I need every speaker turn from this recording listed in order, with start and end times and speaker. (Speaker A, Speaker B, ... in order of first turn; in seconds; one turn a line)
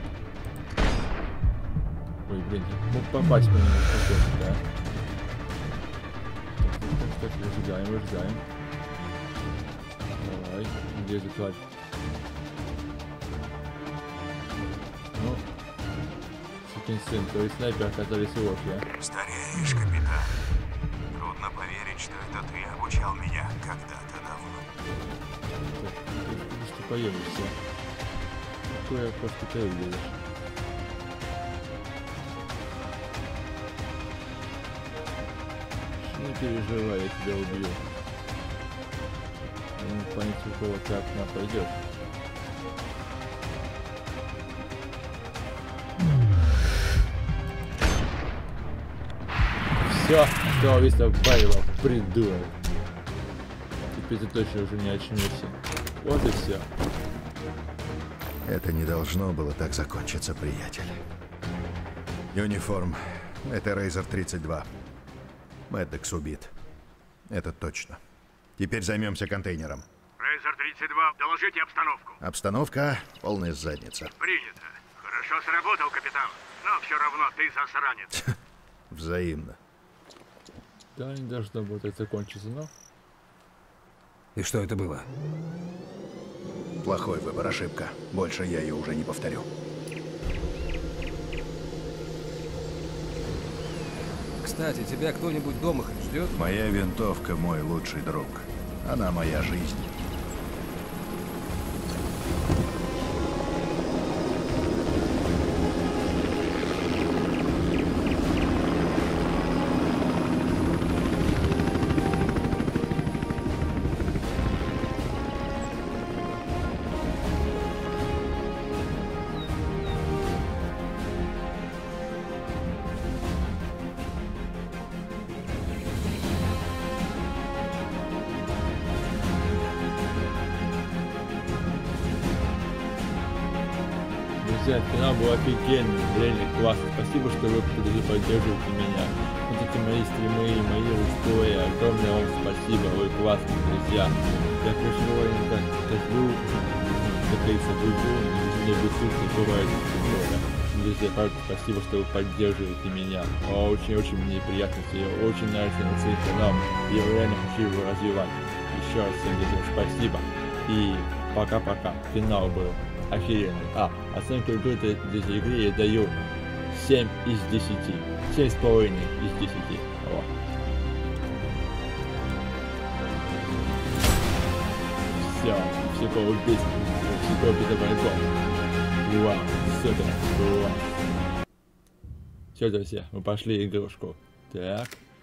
Speaker A: 2.2-4.6
Speaker A: 6.5-8.4
Speaker A: 10.2-11.6
Speaker A: 15.1-15.4
Speaker A: 16.6-18.9
Speaker B: 19.0-20.4
Speaker B: 21.1-24.7
Speaker A: 25.6-27.6
Speaker A: 28.7-30.2
Speaker A: 36.0-37.9
Speaker A: 39.8-41.8
Speaker A: 49.8-52.5
Speaker A: 53.9-56.7
Speaker C: 58.4-61.0
Speaker C: 62.3-64.7
Speaker C: 65.7-66.5
Speaker C: 67.3-68.0
Speaker C: 68.6-69.9
Speaker D: 70.2-72.2
Speaker C: 72.2-74.1
Speaker D: 74.2-78.2
Speaker C: 78.9-79.6
Speaker A: 80.9-82.7
Speaker E: 84.3-85.1
Speaker C: 86.8-89.5
Speaker E: 94.4-96.4
Speaker C: 96.3-99.9
Speaker A: 134.4-170.3
Speaker A: 175.1-178.3
Speaker A: 179.0-180.9
Speaker A: 182.5-185.0